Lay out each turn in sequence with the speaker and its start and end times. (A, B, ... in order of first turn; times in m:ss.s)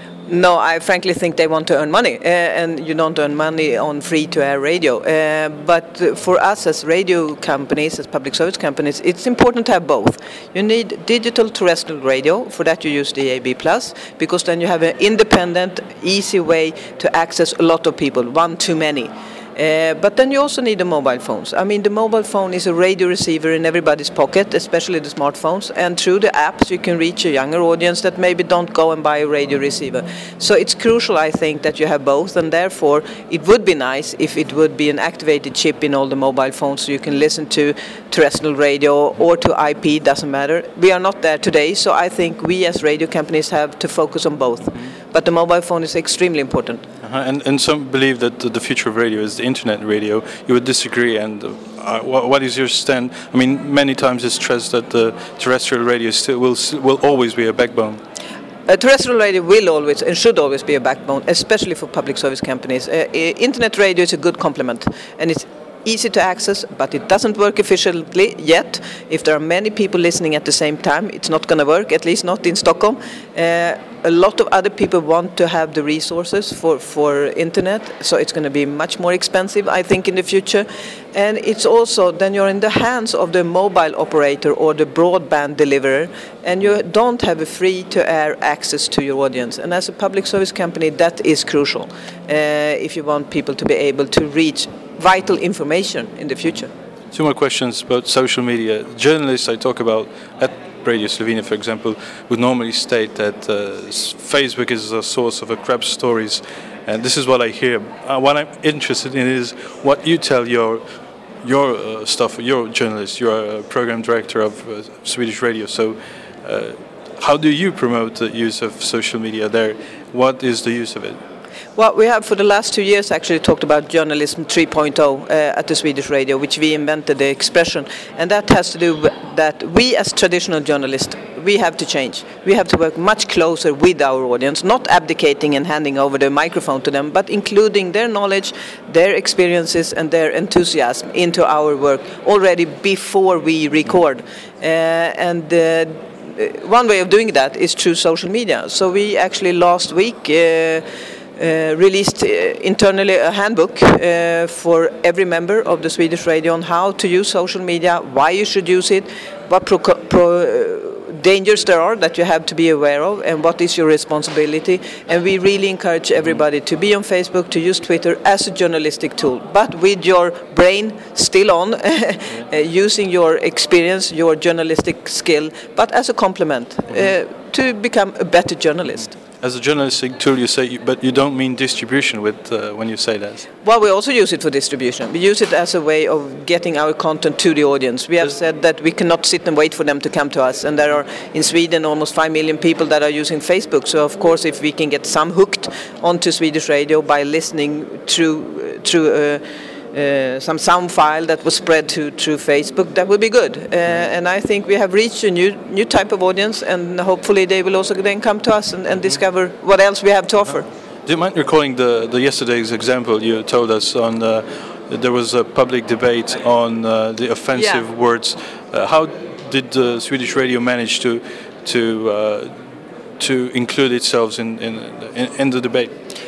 0:00.3-0:46.8 A
0:47.0-0:58.0 B
0:58.7-1:36.7 A
1:37.1-1:50.8 B
1:51.4-2:01.2 B
2:01.8-2:30.8 A
2:31.4-2:59.2 A
2:59.4-3:03.5 B
3:03.6-3:30.7 A
3:31.0-3:42.5 B
3:37.5-3:37.8 A
3:43.2-3:45.9 B